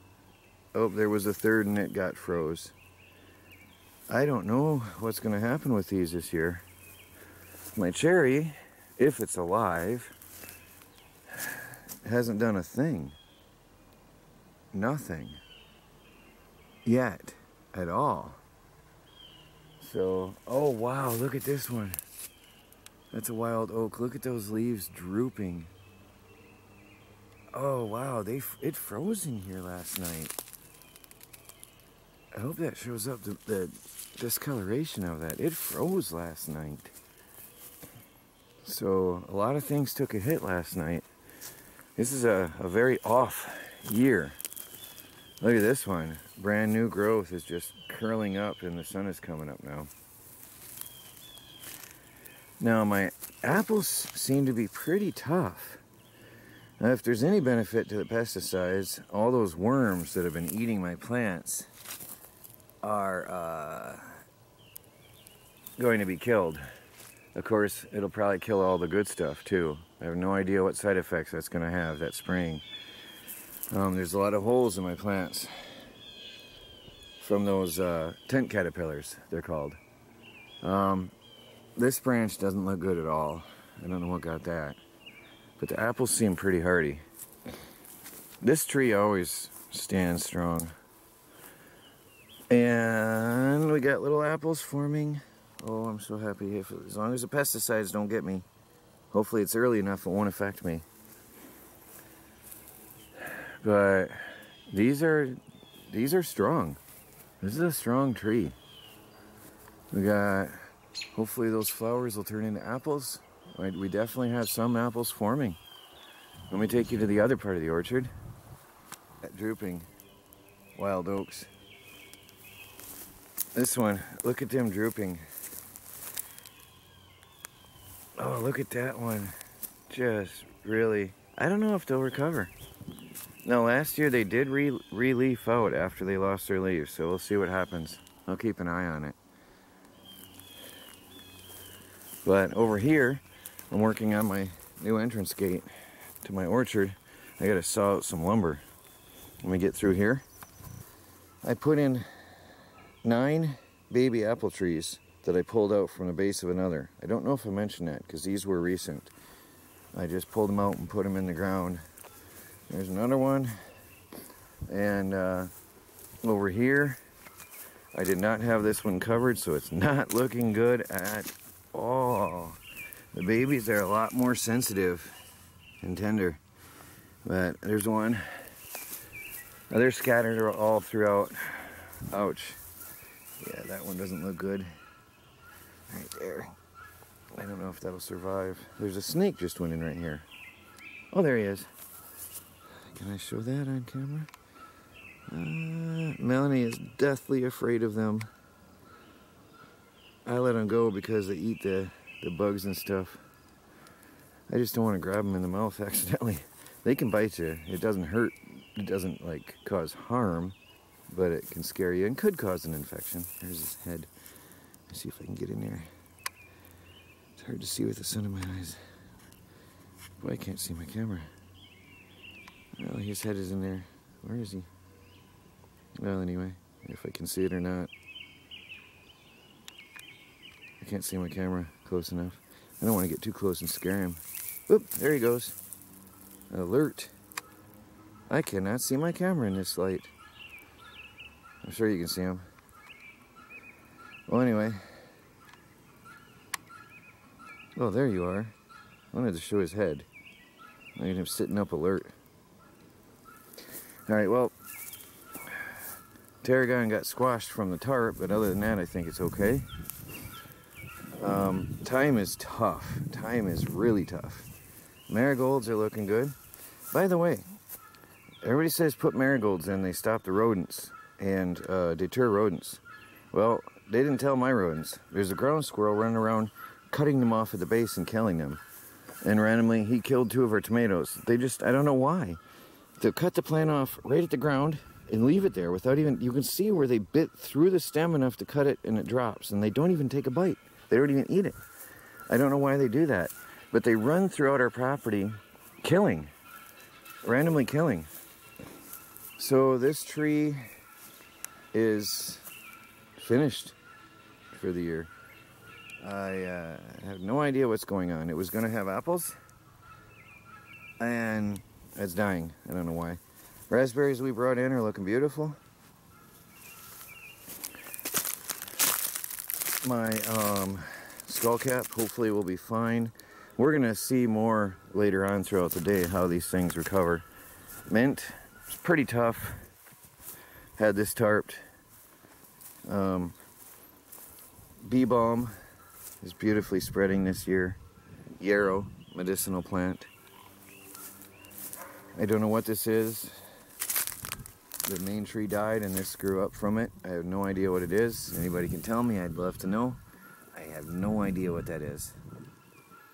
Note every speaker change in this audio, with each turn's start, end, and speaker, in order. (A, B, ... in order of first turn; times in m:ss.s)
0:00.7-0:02.7 A
0:04.1-0:06.6 A
0:07.7-0:10.1 A
0:11.4-0:13.2 A
0:14.7-0:15.4 A
0:16.8-0:18.4 A
0:19.8-0:22.0 A
0:23.1-0:25.7 A
0:27.5-0:30.4 A
0:32.3-0:36.9 A
0:38.6-0:41.0 A
0:42.0-0:44.4 A
0:45.4-0:49.9 A
0:52.6-0:55.8 A
0:56.8-1:01.7 A
1:02.8-1:04.2 A
1:05.8-1:06.6 A
1:07.3-1:12.6 A
1:13.7-1:15.7 A
1:17.2-1:19.8 A
1:20.6-1:21.1 A
1:21.8-1:24.8 A
1:25.6-1:27.0 A
1:28.4-1:30.7 A
1:32.5-1:38.4 A
1:39.1-1:40.8 A
1:43.6-1:46.8 A
1:47.4-1:48.6 A
1:49.9-1:55.6 A
1:56.5-1:58.1 A
1:59.2-1:59.9 A
2:00.7-2:01.5 A
2:03.5-2:05.2 A
2:08.2-2:09.3 A
2:09.9-2:12.5 A
2:13.4-2:19.2 A
2:22.2-2:25.7 A
2:26.2-2:28.6 A
2:29.4-2:30.2 A
2:31.4-2:32.1 A
2:33.0-2:39.1 A
2:39.9-2:41.8 A
2:42.7-2:43.5 A
2:44.7-2:45.5 A
2:46.2-2:47.0 A
2:47.9-2:52.6 A
2:53.1-2:55.2 A
2:55.8-2:56.4 A
2:57.2-2:58.2 A
2:59.7-3:02.6 A
3:03.4-3:04.7 A
3:05.9-3:06.5 A
3:07.4-3:10.2 A
3:11.1-3:11.7 A
3:12.8-3:14.3 A
3:15.3-3:18.3 A
3:20.2-3:23.2 A
3:24.5-3:30.6 A
3:31.1-3:34.1 A
3:34.9-3:35.9 A
3:37.4-3:38.8 A
3:40.2-3:41.3 A
3:42.8-3:44.7 A
3:46.0-3:47.9 A
3:50.8-3:55.6 A
3:56.5-3:57.1 A
3:58.3-4:00.1 A
4:01.6-4:02.4 A
4:04.3-4:04.8 A
4:07.8-4:08.5 A
4:09.1-4:10.1 A
4:11.0-4:12.1 A
4:14.0-4:14.5 A
4:16.4-4:19.6 A
4:21.2-4:24.5 A
4:25.1-4:26.4 A
4:26.9-4:27.4 A
4:28.4-4:38.6 A
4:39.2-4:42.4 A
4:43.0-4:51.6 A
4:52.3-4:56.3 A
4:57.2-4:58.1 A
4:59.4-5:00.6 A
5:01.7-5:02.4 A
5:03.2-5:03.8 A
5:04.5-5:05.1 A
5:06.0-5:09.4 A
5:11.0-5:15.6 A
5:19.8-5:27.2 A
5:27.9-5:29.6 A
5:30.8-5:31.6 A
5:32.8-5:33.3 A
5:34.8-5:35.5 A
5:36.2-5:37.8 A
5:38.4-5:40.1 A
5:42.1-5:43.4 A
5:44.8-5:50.0 A
5:50.5-5:52.2 A